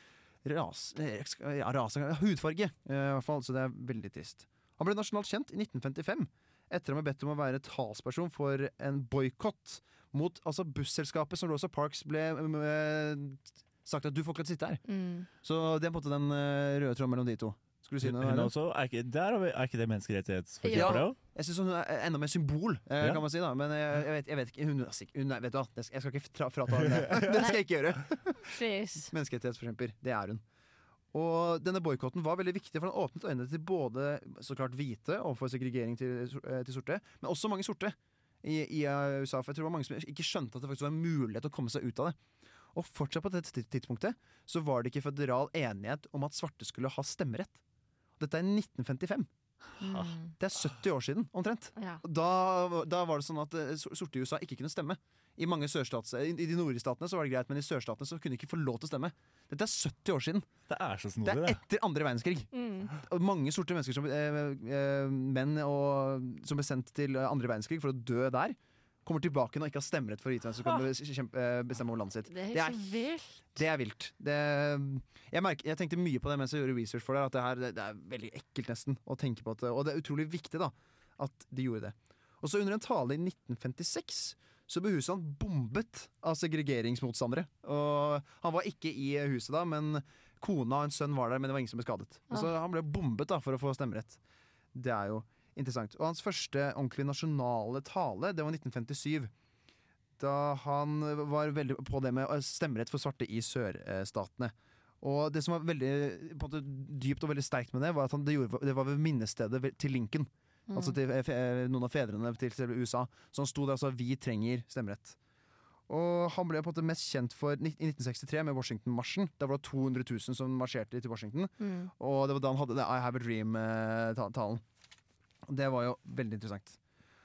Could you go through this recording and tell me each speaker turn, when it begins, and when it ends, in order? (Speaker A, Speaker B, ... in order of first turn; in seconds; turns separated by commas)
Speaker A: 0.4-14.8, Speaker B: 14.9-15.3, Speaker A: 15.3-18.5, Speaker C: 18.0-21.2, Speaker B: 20.6-21.0, Speaker A: 20.7-30.4, Speaker B: 28.4-29.1, Speaker A: 31.1-42.2, Speaker A: 42.7-47.6, Speaker A: 48.2-49.3, Speaker B: 49.8-50.3, Speaker A: 50.4-60.5, Speaker B: 51.8-52.0, Speaker C: 60.7-61.6, Speaker A: 61.2-72.8, Speaker B: 62.5-62.9, Speaker B: 72.3-73.5, Speaker A: 73.5-94.2, Speaker A: 94.7-99.3, Speaker A: 100.2-115.2, Speaker B: 110.7-111.0, Speaker A: 115.9-124.6, Speaker B: 121.6-121.9, Speaker A: 125.5-126.8